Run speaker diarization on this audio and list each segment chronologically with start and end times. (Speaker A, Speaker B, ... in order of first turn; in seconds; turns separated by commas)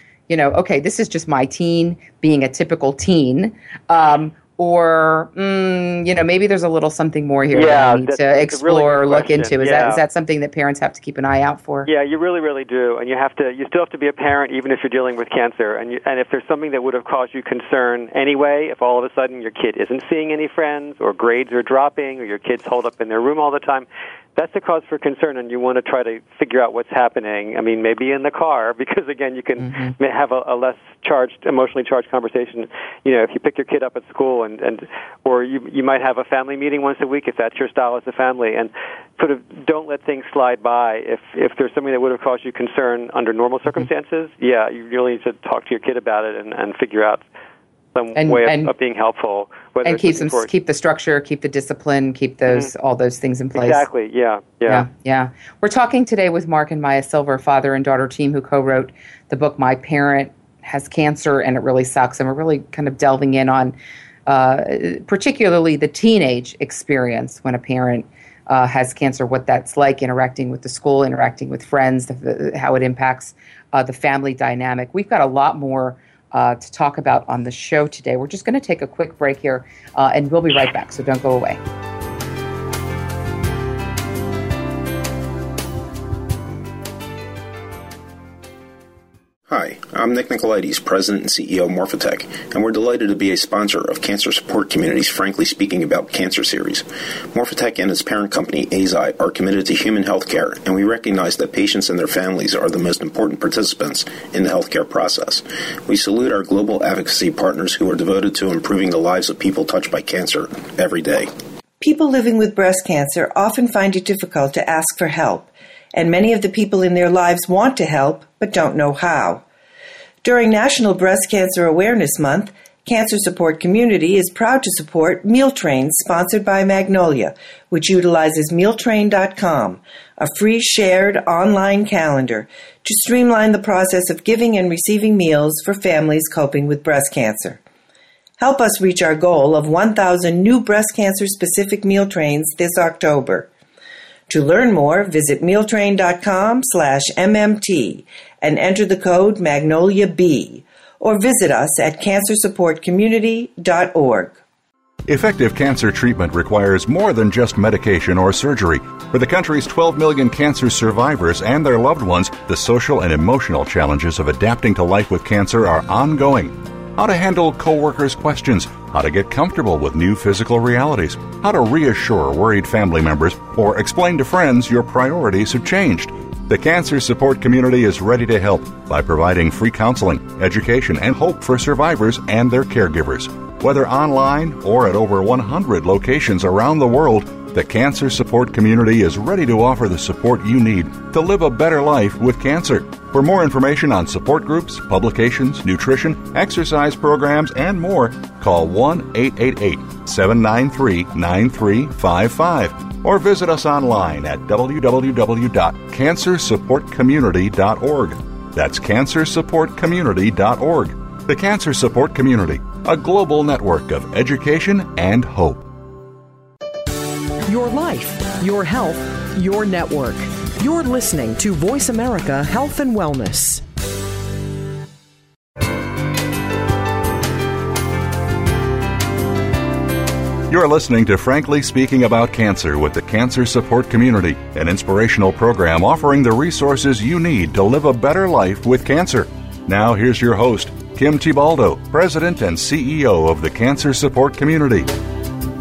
Speaker A: 0.3-11.9, Speaker B: 7.5-10.0, Speaker B: 11.9-47.2, Speaker A: 29.6-29.9, Speaker B: 47.9-50.5, Speaker A: 48.1-48.7, Speaker A: 49.8-53.9, Speaker B: 53.5-54.9, Speaker A: 54.7-81.6, Speaker C: 89.5-111.3, Speaker D: 111.8-119.4, Speaker D: 120.2-137.6, Speaker D: 138.4-143.5, Speaker D: 144.3-154.4, Speaker E: 155.1-215.7, Speaker F: 217.4-223.6, Speaker E: 230.5-244.9